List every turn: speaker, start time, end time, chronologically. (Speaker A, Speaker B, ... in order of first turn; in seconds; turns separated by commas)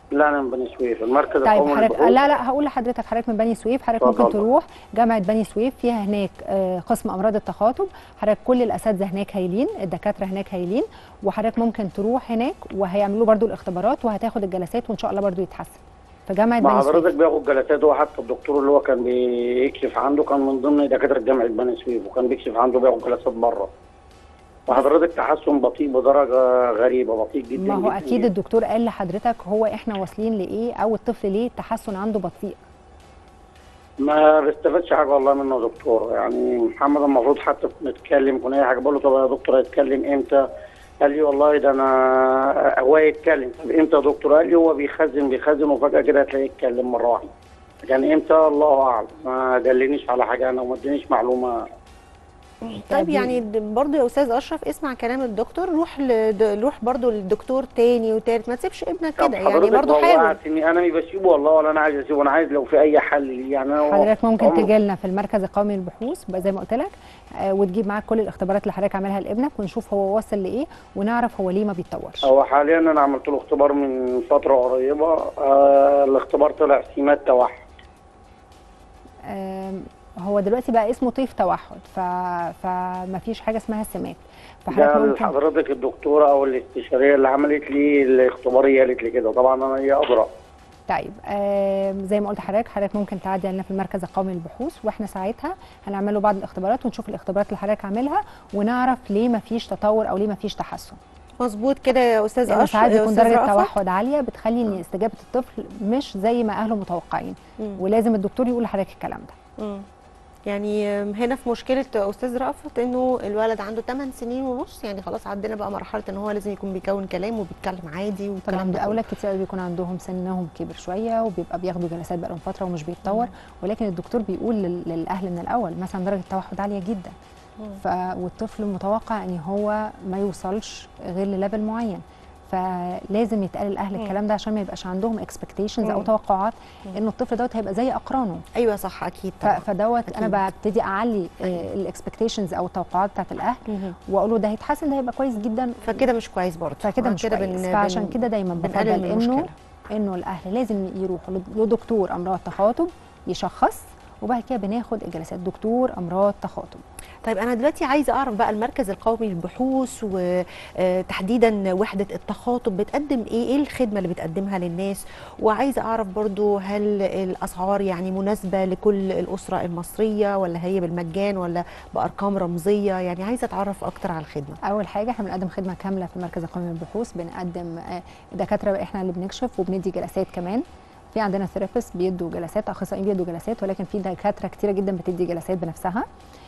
Speaker A: 0.1-2.1, Speaker B: 1.4-17.1, Speaker A: 4.0-4.4, Speaker A: 16.6-23.7, Speaker A: 24.7-28.3, Speaker B: 27.6-32.6, Speaker A: 34.0-40.4, Speaker A: 41.0-47.3, Speaker A: 47.8-51.6, Speaker C: 52.6-60.4, Speaker B: 52.9-53.4, Speaker A: 59.2-64.7, Speaker B: 63.8-72.3, Speaker A: 72.2-77.6, Speaker B: 79.3-85.4, Speaker A: 84.7-90.3, Speaker B: 90.9-101.0, Speaker C: 101.4-103.7, Speaker B: 102.5-109.3, Speaker C: 109.6-109.8, Speaker C: 110.5-119.0, Speaker B: 118.5-127.1, Speaker B: 127.8-138.4, Speaker C: 135.8-136.1, Speaker C: 138.6-140.4, Speaker B: 139.4-146.1, Speaker C: 143.7-143.9, Speaker C: 145.8-149.5, Speaker B: 146.8-156.8, Speaker C: 157.2-160.2, Speaker C: 160.8-174.6, Speaker B: 174.7-186.1